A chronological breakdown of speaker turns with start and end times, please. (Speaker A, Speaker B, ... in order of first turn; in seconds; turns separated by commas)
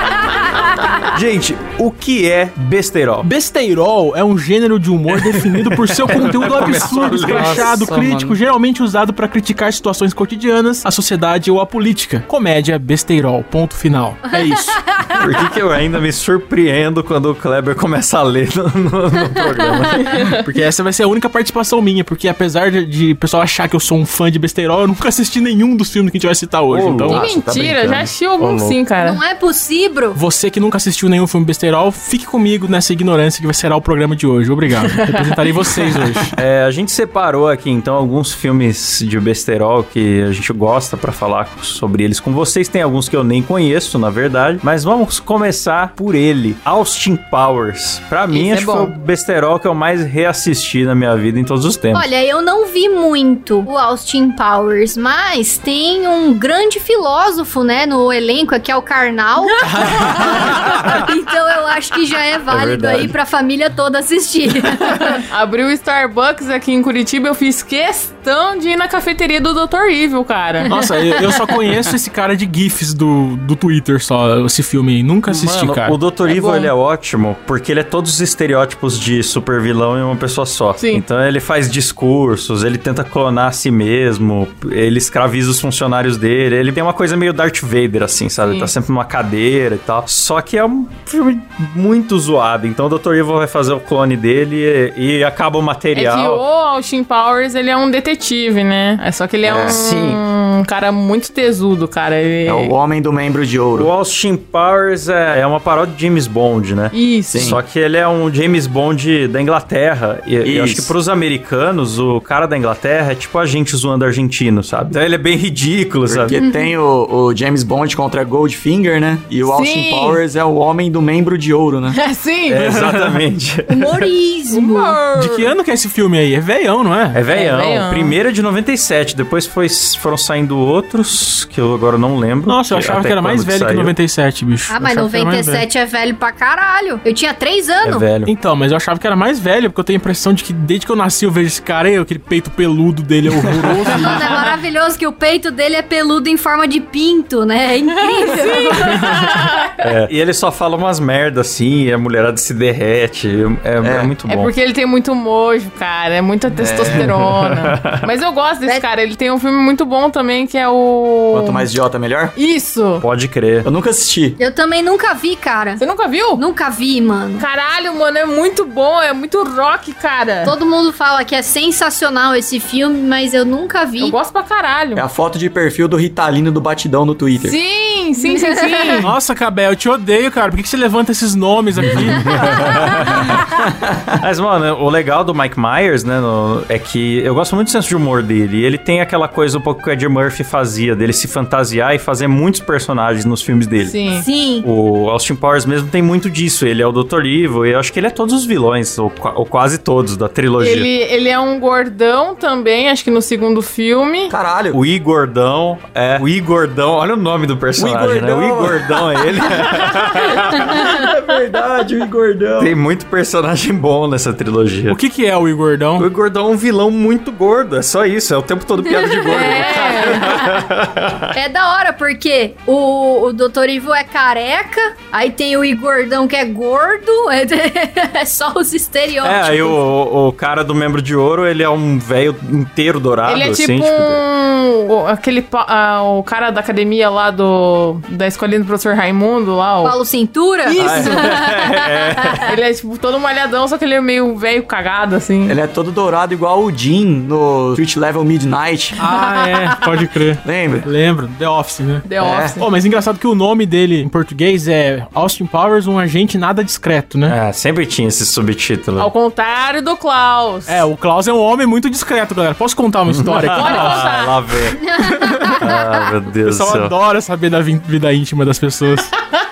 Speaker A: 1.1-3.3, Speaker B: 3.2-14.8, Speaker A: 5.1-8.3, Speaker A: 15.2-20.3, Speaker C: 19.6-20.2, Speaker B: 20.2-27.2, Speaker A: 26.7-27.3, Speaker D: 27.1-28.1, Speaker E: 27.1-29.2, Speaker A: 28.4-28.8, Speaker C: 29.0-30.2, Speaker B: 30.1-36.3, Speaker E: 34.8-35.4, Speaker A: 36.4-52.1, Speaker E: 48.3-48.9, Speaker C: 51.9-65.2, Speaker B: 59.6-60.7, Speaker A: 60.2-61.0, Speaker A: 62.5-63.1, Speaker E: 65.0-71.5, Speaker B: 70.7-76.0, Speaker A: 75.3-96.4, Speaker E: 76.2-76.7, Speaker E: 80.8-81.0, Speaker E: 88.4-88.7, Speaker E: 95.9-102.7, Speaker D: 99.4-99.8, Speaker A: 99.5-100.2, Speaker D: 102.5-103.9, Speaker A: 103.7-116.4, Speaker E: 106.9-107.6, Speaker D: 107.3-107.6, Speaker D: 110.4-110.9, Speaker D: 116.0-122.0, Speaker C: 116.3-116.7, Speaker E: 119.5-120.2, Speaker E: 121.9-122.6, Speaker A: 122.5-124.1, Speaker B: 122.6-123.2, Speaker C: 123.7-125.0, Speaker E: 124.5-125.5, Speaker B: 125.2-127.2, Speaker A: 127.1-133.9, Speaker E: 127.3-128.1, Speaker B: 132.4-135.6, Speaker C: 134.7-138.0, Speaker A: 137.8-138.3, Speaker B: 138.2-144.3, Speaker C: 144.0-149.1, Speaker E: 148.0-149.8, Speaker A: 149.8-154.5, Speaker D: 153.8-154.1, Speaker E: 154.3-161.6, Speaker D: 156.6-157.1, Speaker A: 156.8-158.1, Speaker D: 161.3-162.3, Speaker E: 162.3-163.0, Speaker A: 163.0-163.7, Speaker D: 163.6-164.4, Speaker C: 164.4-165.8, Speaker E: 165.8-166.4, Speaker C: 166.3-167.4, Speaker E: 167.4-170.5, Speaker C: 170.4-174.2, Speaker E: 174.0-175.0, Speaker D: 174.9-177.6, Speaker E: 177.4-179.1, Speaker C: 178.2-179.1, Speaker B: 179.0-182.2, Speaker A: 182.4-183.2, Speaker D: 183.7-184.1, Speaker A: 184.2-193.9, Speaker E: 193.8-194.3, Speaker C: 194.1-194.7, Speaker A: 194.6-200.9, Speaker E: 200.6-204.3, Speaker D: 204.3-204.8, Speaker A: 204.7-210.8, Speaker D: 207.8-212.8, Speaker A: 212.6-215.0, Speaker B: 214.9-216.1, Speaker A: 216.0-221.3, Speaker C: 218.8-220.6, Speaker E: 219.2-220.4, Speaker C: 221.3-229.8, Speaker A: 229.2-234.2, Speaker E: 233.3-239.9, Speaker C: 239.8-242.5, Speaker E: 240.6-241.5, Speaker A: 240.8-242.5, Speaker E: 242.4-245.6, Speaker D: 245.4-249.0, Speaker E: 249.0-249.8, Speaker B: 249.0-252.0, Speaker D: 250.4-250.9, Speaker E: 252.0-252.7, Speaker D: 252.2-252.6, Speaker B: 252.6-257.4, Speaker A: 257.3-259.1, Speaker E: 259.0-260.8, Speaker B: 260.7-264.0, Speaker A: 263.1-264.8, Speaker E: 263.5-264.4, Speaker C: 264.7-266.0, Speaker B: 265.0-265.6, Speaker A: 265.6-266.9, Speaker B: 266.4-269.1